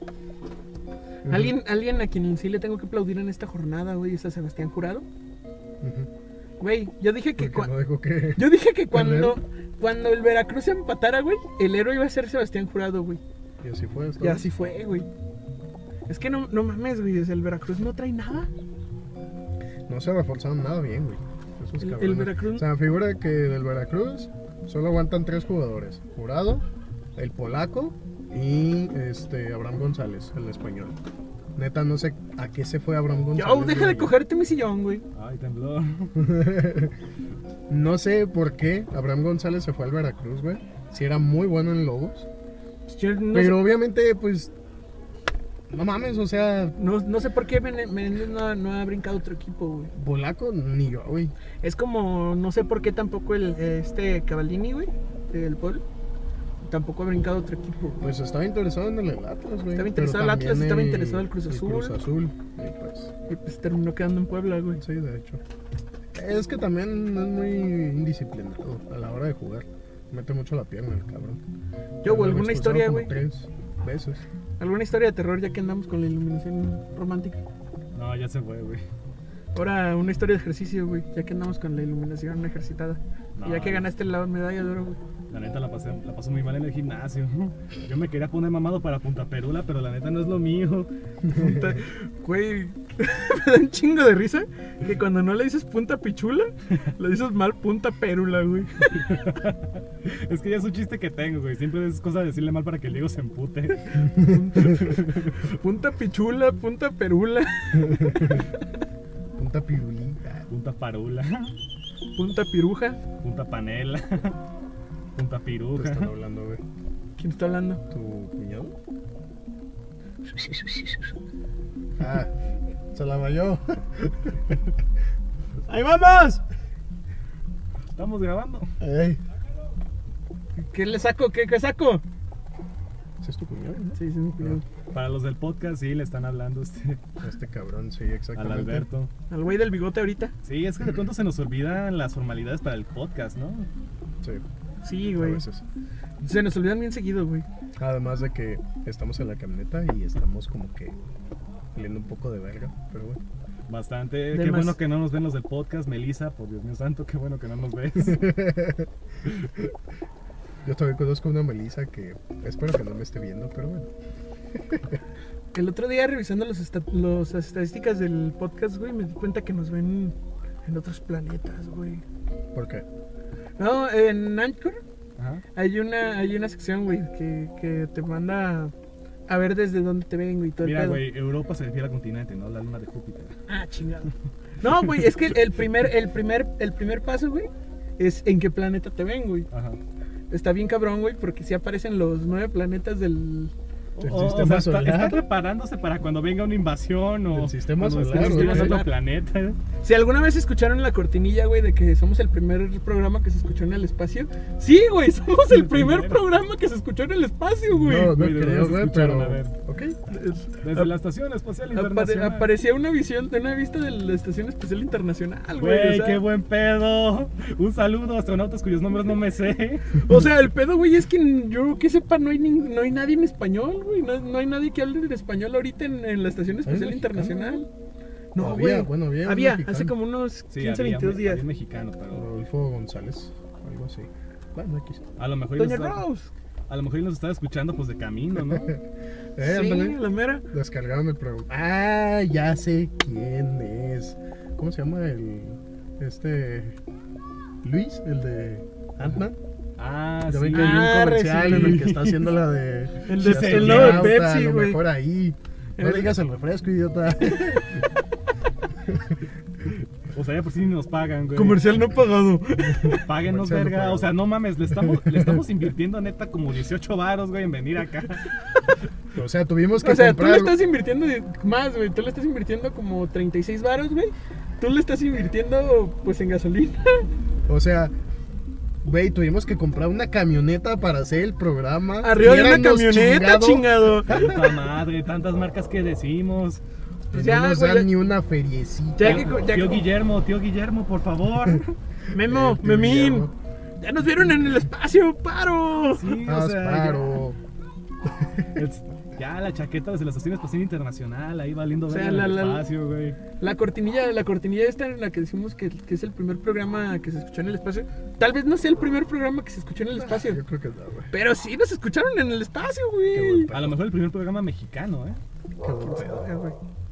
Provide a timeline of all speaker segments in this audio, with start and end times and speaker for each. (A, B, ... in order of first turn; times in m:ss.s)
0:01.2-0:01.6 A
0:01.3-0:05.0 B
0:05.8-0:06.1 A
0:06.6-0:07.7 B
0:07.4-0:09.4 A
0:08.4-0:13.2 B
0:13.6-0:14.5 A
0:14.2-0:15.1 B
0:16.1-0:18.5 B
0:19.9-0:26.6 A
0:21.8-0:22.7 B
0:27.2-0:31.0 A
0:31.6-0:34.1 A
0:33.4-0:35.0 B
0:35.2-0:36.2 C
0:36.2-0:37.0 A
0:37.7-0:42.3 A
0:42.9-0:43.7 B
0:43.3-0:44.5 A
0:45.7-0:46.8 A
0:46.8-0:49.9 B
0:49.9-0:51.3 A
0:51.6-0:55.8 B
0:56.6-0:58.0 B
0:58.0-1:03.1 A
0:59.7-1:02.0 B
1:03.3-1:04.8 B
1:04.8-1:05.4 A
1:06.1-1:11.4 A
1:12.0-1:13.2 B
1:12.0-1:14.2 A
1:14.6-1:17.4 B
1:17.9-1:18.8 C
1:19.6-1:25.0 B
1:23.4-1:23.9 C
1:25.3-1:30.9 C
1:31.3-1:31.8 A
1:31.3-1:39.1 B
1:39.0-1:44.1 C
1:44.2-1:48.5 B
1:44.8-1:45.2 C
1:47.8-1:48.4 A
1:49.4-1:50.5 A
1:50.5-1:51.5 C
1:52.2-1:53.0 B
1:53.2-1:54.4 C
1:55.2-1:56.1 C
1:55.7-1:56.6 A
1:57.2-1:57.8 B
1:57.9-1:58.7 A
2:02.0-2:02.3 A
2:02.9-2:04.6 A
2:05.7-2:06.4 B
2:07.9-2:08.7 C
2:08.8-2:09.2 A
2:10.6-2:12.0 B
2:13.2-2:14.6 A
2:13.9-2:14.6 B
2:14.9-2:17.0 C
2:17.2-2:18.9 A
2:18.4-2:19.1 C
2:19.3-2:20.3 B
2:20.4-2:23.7 C
2:24.8-2:25.4 B
2:25.2-2:25.6 A
2:26.2-2:27.5 B
2:27.8-2:31.0 A
2:31.7-2:33.2 A
2:33.7-2:38.3 C
2:34.3-2:34.8 B
2:38.1-2:38.9 A
2:40.6-2:43.9 A
2:44.6-2:45.0 A
2:45.5-2:52.0 B
2:52.5-2:52.8 A
2:53.6-2:54.8 B
2:55.2-2:55.4 C
2:55.6-2:58.7 B
2:59.3-3:01.0 B
3:00.6-3:03.4 C
3:03.5-3:09.5 B
3:09.5-3:09.8 C
3:10.3-3:13.5 B
3:14.0-3:19.6 C
3:14.0-3:15.2 A
3:17.3-3:18.8 A
3:18.1-3:18.9 B
3:19.8-3:28.2 B
3:25.5-3:26.3 C
3:27.7-3:30.0 A
3:28.0-3:29.5 C
3:30.1-3:30.9 B
3:30.6-3:32.5 C
3:31.7-3:36.2 B
3:35.6-3:40.1 C
3:39.9-3:47.7 B
3:46.6-3:47.6 A
3:48.3-3:51.4 B
3:48.4-3:50.0 A
3:50.5-3:52.3 C
3:52.1-3:55.0 A
3:55.2-3:56.0 C
3:55.6-3:56.3 B
3:56.7-3:58.8 C
3:59.4-4:00.0 A
3:59.4-4:00.4 B
4:00.5-4:06.8 A
4:07.6-4:09.4 A
4:09.8-4:12.2 C
4:10.3-4:17.8 A
4:10.5-4:12.0 B
4:13.0-4:14.8 B
4:13.1-4:14.2 C
4:15.8-4:16.2 B
4:18.9-4:19.2 A
4:20.1-4:21.7 C
4:21.4-4:23.1 B
4:23.0-4:28.2 C
4:23.2-4:24.1 A
4:24.8-4:25.4 A
4:29.1-4:30.6 A
4:29.8-4:37.1 B
4:37.5-4:37.9 A
4:38.8-4:44.3 A
4:42.0-4:44.5 B
4:44.1-4:46.6 C
4:47.1-4:49.4 A
4:47.1-4:47.9 B
4:49.0-4:49.9 B
4:49.0-4:51.8 C
4:52.1-4:53.3 B
4:52.2-4:53.3 A
4:53.8-4:56.2 B
4:56.0-4:57.1 C
4:56.2-4:57.4 A
4:58.2-4:58.5 A
4:58.6-5:03.2 C
5:01.9-5:02.6 B
5:03.4-5:10.4 B
5:10.0-5:11.1 A
5:11.1-5:13.5 B
5:13.1-5:13.8 A
5:13.5-5:15.2 C
5:15.6-5:16.2 A
5:15.8-5:16.6 B